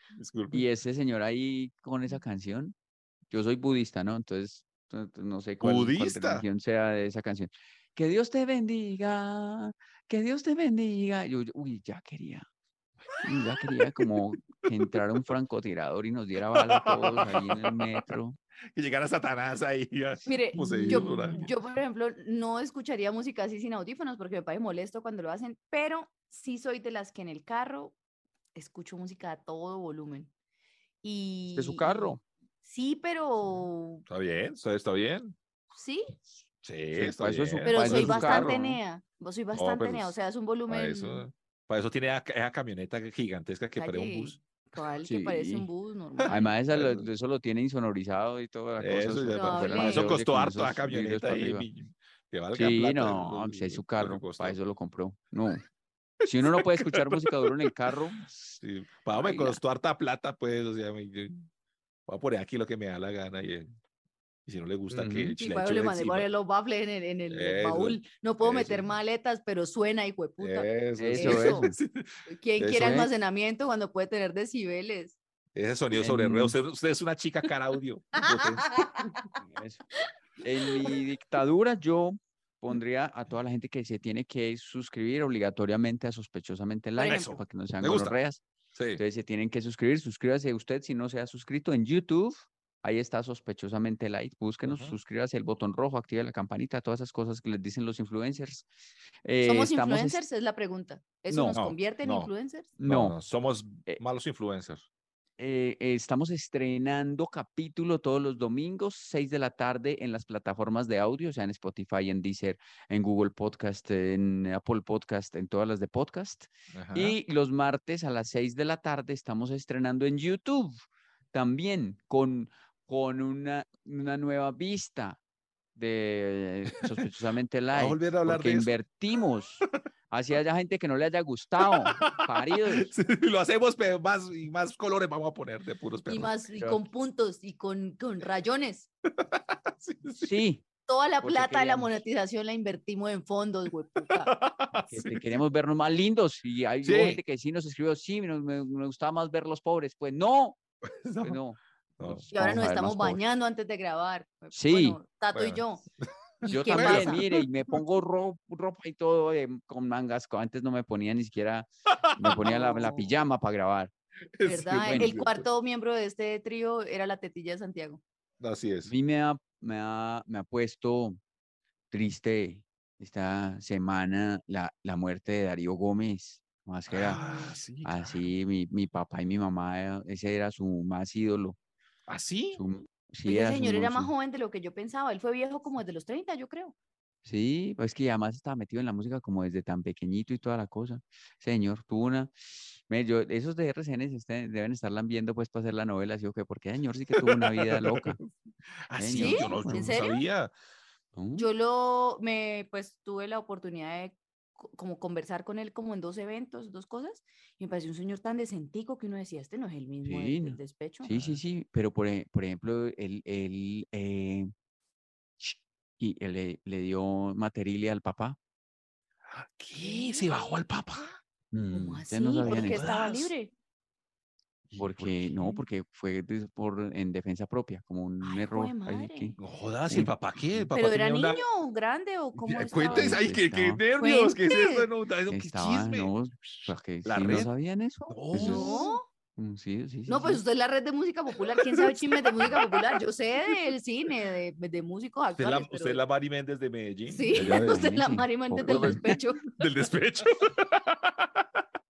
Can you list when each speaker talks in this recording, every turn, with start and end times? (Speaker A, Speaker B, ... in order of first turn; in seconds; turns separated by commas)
Speaker A: 0.1-0.6, Speaker B: 0.5-2.8, Speaker B: 3.3-12.5, Speaker A: 5.6-6.5, Speaker B: 13.2-18.4, Speaker A: 13.3-14.1, Speaker A: 16.5-18.0, Speaker A: 18.8-21.5, Speaker C: 20.3-27.9, Speaker B: 20.7-21.4, Speaker C: 28.6-30.3, Speaker C: 31.0-34.0, Speaker B: 31.5-32.2, Speaker A: 34.1-35.4, Speaker C: 35.7-36.1, Speaker A: 36.6-38.6, Speaker B: 36.9-38.8, Speaker C: 37.7-41.3, Speaker A: 39.5-40.1, Speaker A: 40.7-44.4, Speaker C: 43.8-46.5, Speaker B: 45.0-45.7, Speaker A: 46.2-47.1, Speaker B: 46.3-51.7, Speaker A: 48.8-54.6, Speaker C: 49.4-50.1, Speaker B: 52.5-55.6, Speaker A: 56.2-57.7, Speaker B: 56.2-58.3, Speaker A: 58.6-61.5, Speaker B: 59.1-59.6, Speaker A: 62.1-63.7, Speaker A: 64.5-66.3, Speaker B: 64.9-65.3, Speaker C: 65.4-71.7, Speaker A: 67.3-68.9, Speaker A: 70.4-73.1, Speaker B: 71.0-71.7, Speaker C: 72.3-75.2, Speaker B: 72.8-73.1, Speaker A: 75.5-79.1, Speaker B: 75.9-76.6, Speaker C: 78.2-79.2, Speaker B: 79.4-79.8, Speaker B: 80.4-88.4, Speaker C: 87.0-87.4, Speaker A: 87.0-88.1, Speaker A: 88.8-89.0, Speaker B: 89.0-98.7, Speaker A: 94.7-95.0, Speaker B: 99.2-100.2, Speaker C: 99.4-102.7, Speaker B: 101.3-101.6, Speaker A: 101.6-102.3, Speaker B: 102.8-103.2, Speaker A: 102.8-104.8, Speaker B: 105.4-120.8, Speaker A: 116.7-117.2, Speaker B: 121.3-125.2, Speaker B: 125.8-132.9, Speaker A: 127.7-128.8, Speaker A: 131.6-136.3, Speaker C: 136.1-138.9, Speaker B: 136.6-136.8, Speaker A: 139.1-140.4, Speaker B: 140.2-140.6, Speaker C: 140.9-144.3, Speaker B: 141.2-141.9, Speaker A: 144.2-145.3, Speaker B: 144.9-150.6, Speaker A: 146.8-147.2, Speaker A: 150.8-151.4, Speaker B: 151.2-153.2, Speaker A: 152.0-152.2, Speaker C: 152.3-155.8, Speaker B: 154.5-155.0, Speaker A: 155.3-155.6, Speaker C: 156.4-157.2, Speaker B: 156.5-163.9, Speaker A: 156.5-157.8, Speaker A: 161.9-163.0, Speaker A: 164.4-165.5, Speaker C: 164.4-168.0, Speaker B: 164.8-165.1, Speaker A: 168.4-168.9, Speaker B: 168.9-171.2, Speaker B: 171.9-177.2, Speaker A: 176.9-178.3, Speaker C: 177.1-177.5, Speaker B: 177.8-181.6, Speaker A: 182.1-182.6, Speaker B: 182.5-184.1, Speaker C: 183.3-186.7, Speaker B: 187.2-198.2, Speaker A: 197.2-198.3, Speaker A: 198.9-200.5, Speaker B: 199.0-199.9, Speaker C: 199.1-200.2, Speaker B: 201.2-201.5, Speaker C: 201.4-211.1, Speaker B: 210.0-214.5, Speaker A: 211.1-211.4, Speaker B: 215.4-218.4, Speaker A: 219.3-221.2, Speaker C: 219.8-220.6, Speaker B: 221.5-222.9, Speaker C: 221.7-223.5, Speaker A: 222.4-223.3, Speaker A: 224.7-225.6, Speaker B: 224.8-229.4, Speaker C: 228.2-229.4, Speaker A: 229.4-231.5, Speaker B: 229.9-230.7, Speaker C: 230.7-233.3, Speaker A: 232.4-237.5, Speaker B: 232.9-233.8, Speaker C: 234.0-234.9, Speaker B: 235.3-238.8, Speaker A: 238.1-238.9, Speaker C: 238.4-239.1, Speaker B: 239.3-240.4, Speaker C: 240.1-246.0, Speaker A: 241.4-243.0, Speaker A: 245.4-247.9, Speaker C: 247.1-249.7, Speaker B: 247.3-249.2, Speaker A: 248.6-251.6